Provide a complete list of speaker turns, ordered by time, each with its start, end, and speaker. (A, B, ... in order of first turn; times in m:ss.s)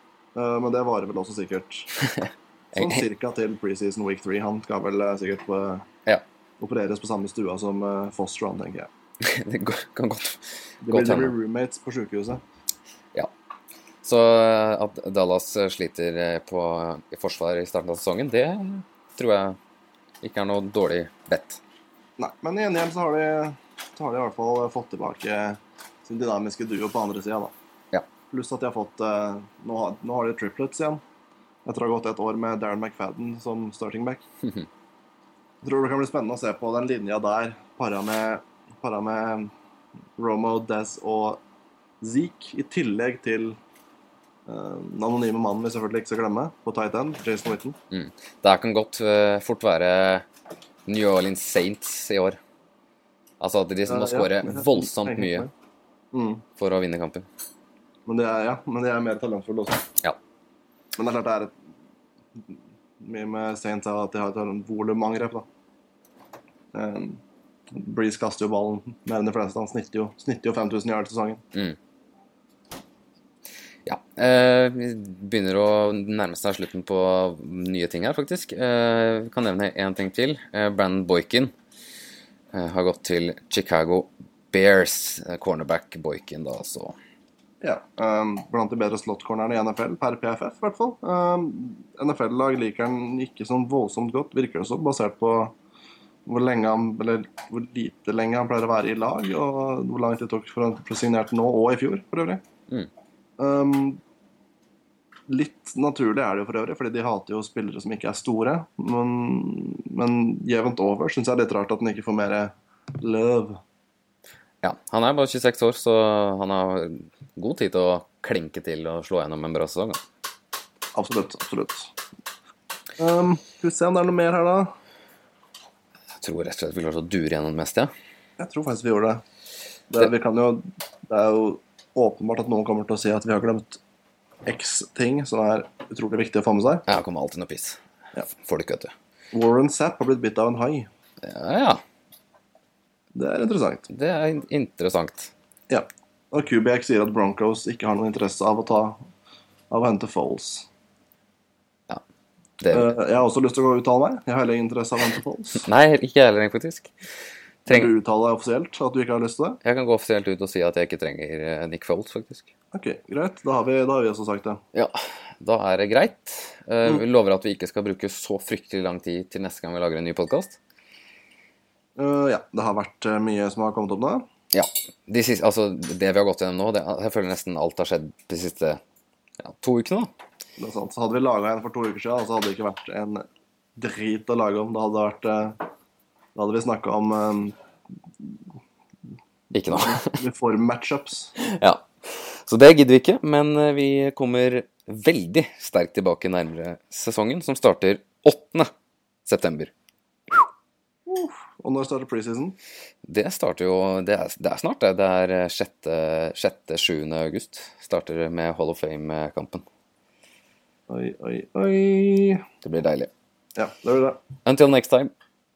0:00.4-0:01.9 A
0:02.0-0:03.0 B
0:02.7-0:05.9 A
0:06.6-0:08.9 A
0:09.2-0:11.4 B
0:10.8-0:12.4 A
0:14.0-0:19.6 B
0:20.2-0:21.6 B
0:22.2-0:27.5 A
0:28.3-0:31.0 A
0:31.6-0:34.2 A
0:35.6-0:39.5 A
0:40.2-0:41.4 A
0:42.0-0:43.6 A
0:44.5-0:47.8 A
0:47.9-0:50.3 B
0:50.9-0:52.4 B
0:53.4-0:55.5 B
0:53.9-0:55.5 A
0:56.1-0:56.4 A
0:56.6-0:57.3 B
0:58.1-0:59.9 A
1:01.0-1:01.5 A
1:02.4-1:05.5 A
1:06.7-1:11.4 A
1:13.9-1:21.5 B
1:22.5-1:27.0 B
1:27.6-1:35.6 A
1:36.3-1:42.4 A
1:43.4-1:44.0 A
1:45.3-1:53.6 A
1:54.6-2:00.0 B
2:01.0-2:01.9 A
2:03.0-2:04.7 A
2:06.2-2:07.9 B
2:08.4-2:09.2 A
2:09.9-2:13.8 A
2:14.4-2:16.8 A
2:16.9-2:18.9 B
2:19.3-2:20.9 A
2:21.2-2:21.8 B
2:23.2-2:23.9 A
2:23.9-2:25.3 B
2:25.7-2:29.0 A
2:29.7-2:30.7 A
2:32.6-2:32.9 B
2:32.7-2:35.7 A
2:35.6-2:36.9 B
2:37.7-2:37.9 B
2:37.7-2:39.6 A
2:39.6-2:42.5 B
2:42.7-2:44.6 A
2:44.7-2:50.6 B
2:52.0-2:54.3 A
2:54.5-2:58.8 B
2:59.4-3:00.1 B
3:00.6-3:03.2 A
3:03.8-3:05.6 A
3:06.4-3:07.6 A
3:09.5-3:10.2 B
3:09.7-3:11.3 A
3:11.4-3:18.7 B
3:19.3-3:19.7 B
3:21.1-3:22.6 A
3:23.1-3:29.6 B
3:30.9-3:32.4 A
3:32.6-3:33.1 B
3:33.6-3:34.2 A
3:34.4-3:35.1 B